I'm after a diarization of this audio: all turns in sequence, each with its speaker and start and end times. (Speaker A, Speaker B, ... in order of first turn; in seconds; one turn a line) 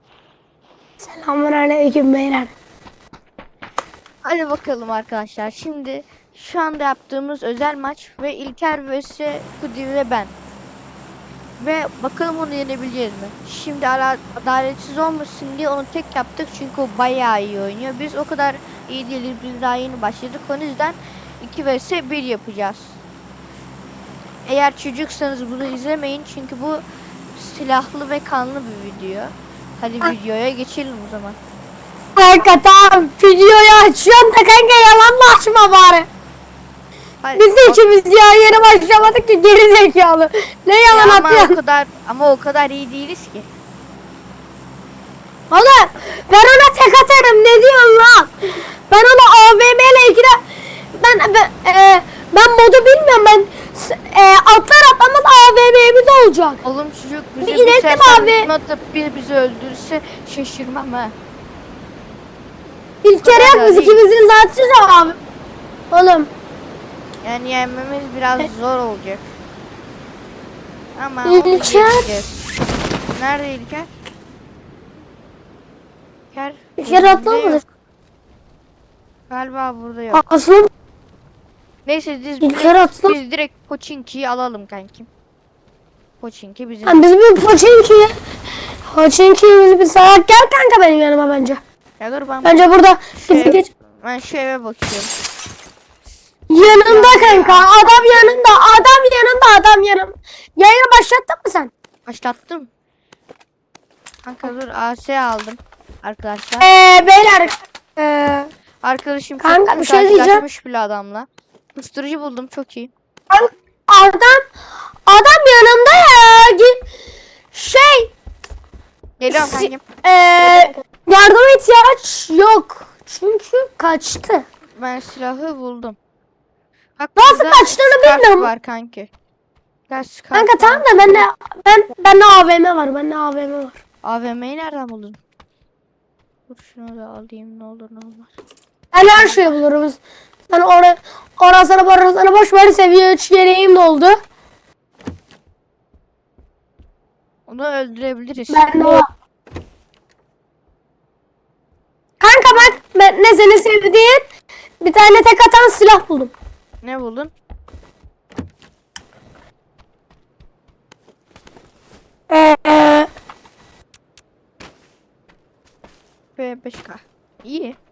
Speaker A: 1.0-2.5
Speaker B: 4.2-10.3
Speaker B: 11.6-23.0
Speaker B: 24.4-26.8
Speaker B: 27.3-31.4
Speaker A: 32.2-36.1
Speaker B: 37.2-37.8
Speaker A: 37.4-41.5
Speaker B: 40.9-43.5
Speaker A: 45.5-50.4
Speaker A: 50.9-56.6
Speaker B: 56.6-61.1
Speaker A: 57.4-58.5
Speaker A: 63.0-65.2
Speaker B: 63.2-64.0
Speaker A: 65.9-66.3
Speaker B: 67.2-69.3
Speaker B: 70.9-72.5
Speaker A: 71.2-72.0
Speaker B: 73.1-73.9
Speaker B: 76.3-77.6
Speaker A: 76.8-77.6
Speaker B: 79.3-80.2
Speaker A: 80.1-80.7
Speaker B: 81.8-85.1
Speaker A: 82.4-83.1
Speaker B: 86.2-87.0
Speaker A: 86.8-88.2
Speaker A: 88.9-91.6
Speaker B: 92.0-95.1
Speaker A: 92.4-93.7
Speaker A: 96.5-101.7
Speaker B: 96.6-98.5
Speaker B: 102.0-102.7
Speaker B: 104.2-106.7
Speaker A: 106.6-108.5
Speaker B: 108.8-112.9
Speaker A: 109.4-110.4
Speaker A: 113.3-114.5
Speaker A: 115.0-116.8
Speaker A: 117.5-118.1
Speaker B: 119.2-119.8
Speaker A: 119.3-124.5
Speaker B: 124.8-126.0
Speaker B: 127.0-129.1
Speaker A: 127.2-128.5
Speaker B: 129.9-131.2
Speaker A: 130.3-133.8
Speaker B: 134.0-135.2
Speaker B: 136.5-138.3
Speaker A: 138.9-144.2
Speaker B: 139.1-139.5
Speaker B: 147.5-149.0
Speaker A: 148.5-149.0
Speaker A: 152.2-154.2
Speaker B: 152.4-152.8
Speaker A: 154.8-156.3
Speaker B: 156.8-157.3
Speaker A: 162.3-163.1
Speaker B: 166.4-167.8